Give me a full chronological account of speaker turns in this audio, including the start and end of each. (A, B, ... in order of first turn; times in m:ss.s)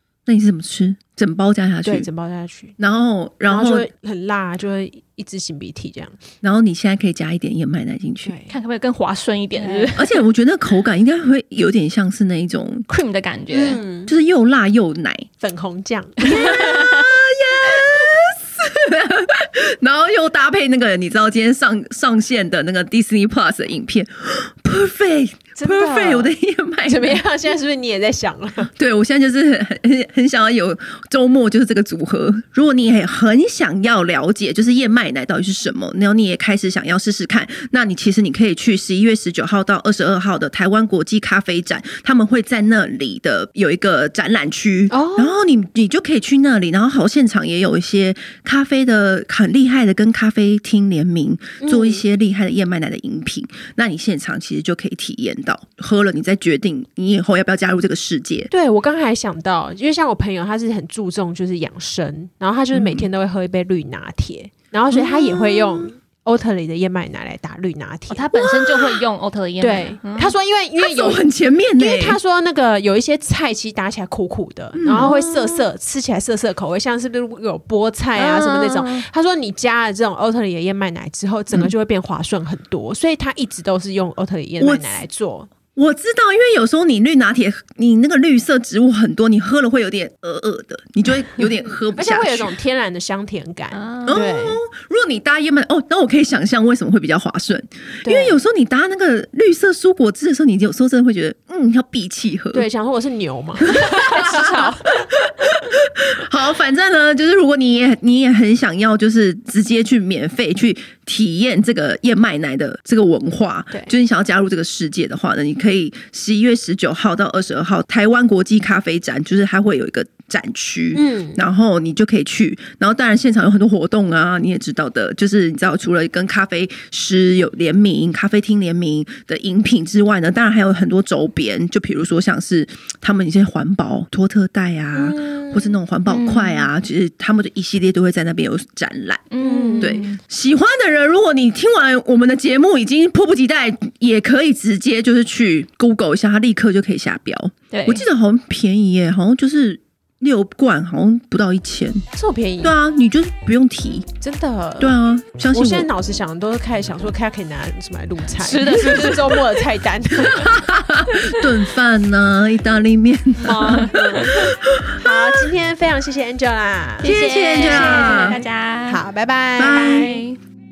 0:00.2-0:02.1 A
0:01.8-0:02.7 B
0:02.8-0:03.9 A
0:03.5-0:06.2 B
0:06.4-0:08.3 A
0:08.2-0:08.5 B
0:08.5-0:10.0 C
0:09.5-0:10.0 B
0:10.0-0:12.9 A
0:12.9-0:13.8 C
0:13.5-0:14.1 B
0:14.0-0:15.3 A
0:15.4-0:17.1 B
0:16.2-0:27.2 A
0:16.3-0:16.7 C
0:25.6-0:26.3 B
0:26.8-0:28.7 B
0:28.7-0:58.5 A
0:44.9-0:45.4 B
0:51.6-0:52.0 B
0:58.5-1:08.3 B
1:02.7-1:03.1 A
1:04.9-1:05.9 A
1:08.1-1:10.3 C
1:08.4-1:09.0 A
1:09.6-1:25.5 B
1:10.8-1:12.2 A
1:14.7-1:15.6 A
1:18.1-1:19.0 C
1:24.6-1:25.0 A
1:25.7-1:32.5 A
1:31.9-1:34.6 B
1:33.7-1:34.2 C
1:34.1-1:42.6 A
1:38.0-1:38.4 B
1:42.5-1:45.0 B
1:43.6-2:19.3 A
1:43.8-1:44.7 C
2:00.9-2:01.4 B
2:14.9-2:15.7 B
2:16.1-2:16.6 C
2:19.3-2:20.2 C
2:19.4-2:20.0 B
2:19.8-2:32.0 A
2:27.7-2:28.0 C
2:32.2-2:32.8 B
2:32.6-2:34.0 A
2:34.2-2:34.9 B
2:34.8-2:35.9 A
2:35.5-2:40.6 B
2:38.4-2:39.5 C
2:38.9-2:39.1 A
2:40.2-2:45.1 A
2:43.4-2:50.2 B
2:43.4-2:44.2 C
2:47.0-2:49.0 C
2:47.0-2:48.4 A
2:49.6-2:50.2 A
2:49.6-2:50.4 C